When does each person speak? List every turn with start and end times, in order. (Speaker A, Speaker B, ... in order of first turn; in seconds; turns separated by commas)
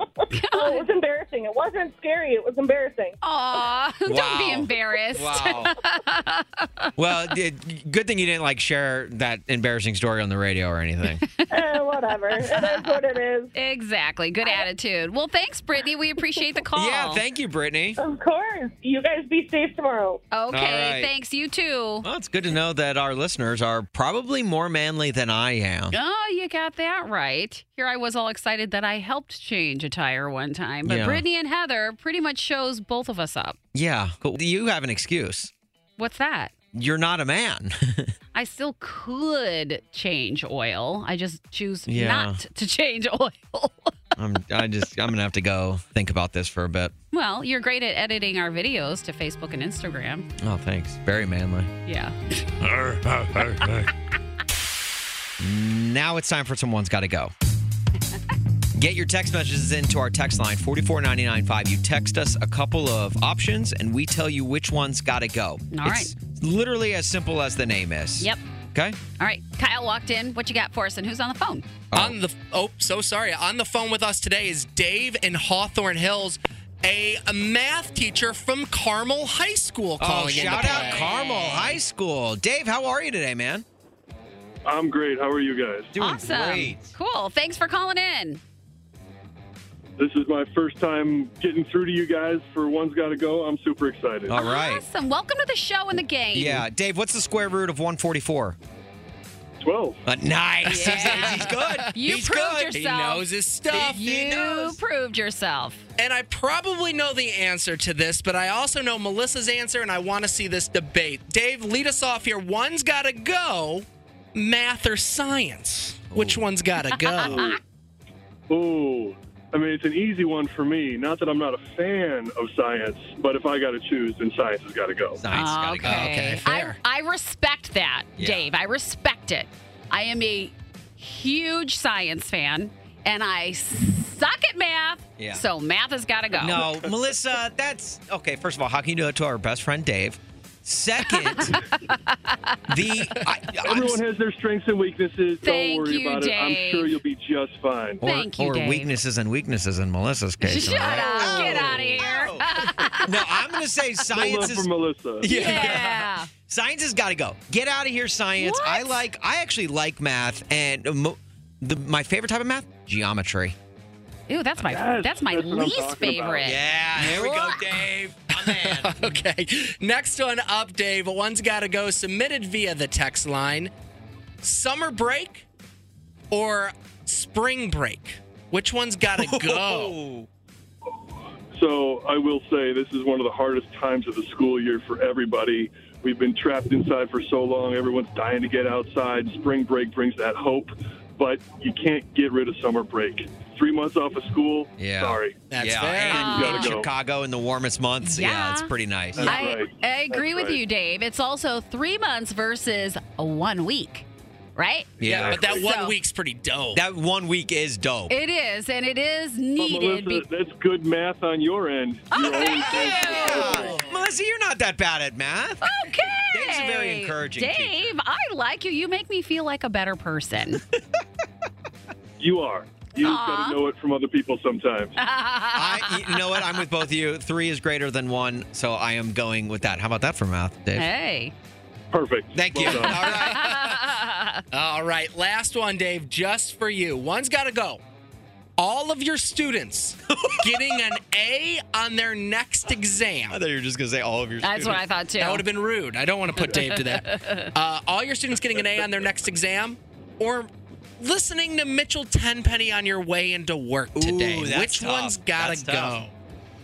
Speaker A: 0.3-0.8, Speaker B: 0.5-3.2, Speaker A: 3.2-6.9, Speaker C: 4.0-5.7, Speaker C: 7.0-11.2, Speaker A: 11.3-11.6, Speaker B: 11.5-13.5, Speaker A: 12.4-12.9, Speaker A: 13.5-17.2, Speaker C: 16.7-18.0, Speaker B: 18.0-20.2, Speaker A: 20.3-22.1, Speaker C: 20.5-21.1, Speaker C: 22.0-25.9, Speaker A: 25.9-33.6, Speaker C: 30.8-31.2, Speaker C: 33.7-35.5, Speaker A: 36.0-36.5, Speaker C: 36.7-38.1, Speaker A: 38.3-43.9, Speaker C: 41.9-42.4, Speaker C: 44.1-46.9, Speaker A: 47.1-50.3, Speaker C: 50.4-51.7, Speaker A: 51.9-52.5, Speaker C: 52.7-53.9, Speaker C: 55.4-57.3, Speaker C: 58.8-69.0, Speaker A: 65.7-66.1, Speaker A: 69.2-71.7, Speaker C: 71.9-72.2, Speaker D: 71.9-81.1, Speaker C: 80.0-83.6, Speaker A: 80.3-81.8, Speaker E: 84.7-85.9, Speaker C: 85.9-86.9, Speaker A: 86.0-88.4, Speaker E: 90.0-94.3, Speaker C: 94.3-94.8, Speaker A: 94.3-96.6, Speaker C: 96.3-98.5, Speaker E: 99.6-100.0, Speaker C: 100.0-102.8, Speaker A: 100.7-105.8, Speaker D: 101.0-101.4, Speaker D: 102.7-104.1, Speaker C: 103.7-104.8, Speaker D: 106.0-117.6, Speaker C: 116.1-116.4, Speaker A: 117.0-117.6, Speaker E: 118.5-125.2, Speaker C: 125.2-126.4, Speaker A: 125.3-136.7, Speaker D: 125.9-126.8, Speaker C: 128.2-128.5, Speaker C: 135.2-135.4, Speaker C: 136.4-141.6, Speaker A: 141.1-142.6, Speaker C: 142.7-144.0, Speaker E: 143.6-148.0, Speaker A: 145.4-147.0, Speaker C: 148.0-163.5, Speaker A: 148.0-148.9, Speaker A: 150.4-153.3, Speaker E: 150.7-152.1, Speaker E: 154.1-155.5, Speaker A: 155.2-156.3, Speaker A: 158.4-159.0, Speaker A: 164.3-167.7, Speaker E: 164.6-166.5, Speaker C: 166.4-169.1, Speaker D: 168.3-173.7, Speaker D: 174.4-175.4, Speaker D: 176.3-179.9, Speaker C: 179.1-180.3, Speaker E: 181.5-195.4, Speaker C: 194.8-199.5, Speaker D: 195.5-196.5, Speaker A: 196.1-196.8, Speaker E: 196.2-196.9, Speaker A: 198.0-205.9, Speaker E: 199.2-200.6, Speaker C: 205.0-205.5, Speaker D: 205.1-206.8, Speaker C: 206.7-208.1, Speaker A: 208.1-210.2, Speaker E: 209.6-213.9, Speaker A: 212.1-213.8, Speaker C: 212.4-217.9, Speaker A: 215.6-220.6, Speaker E: 222.2-224.9, Speaker A: 223.0-223.6, Speaker A: 224.9-226.4, Speaker C: 225.5-230.9, Speaker A: 230.8-231.3, Speaker E: 231.9-233.2, Speaker C: 232.3-233.8, Speaker A: 232.6-234.4, Speaker D: 234.5-237.8, Speaker D: 238.6-243.4, Speaker C: 240.2-240.8, Speaker C: 243.3-244.8, Speaker A: 244.4-245.4, Speaker D: 245.2-256.1, Speaker A: 246.4-247.5, Speaker C: 253.9-256.0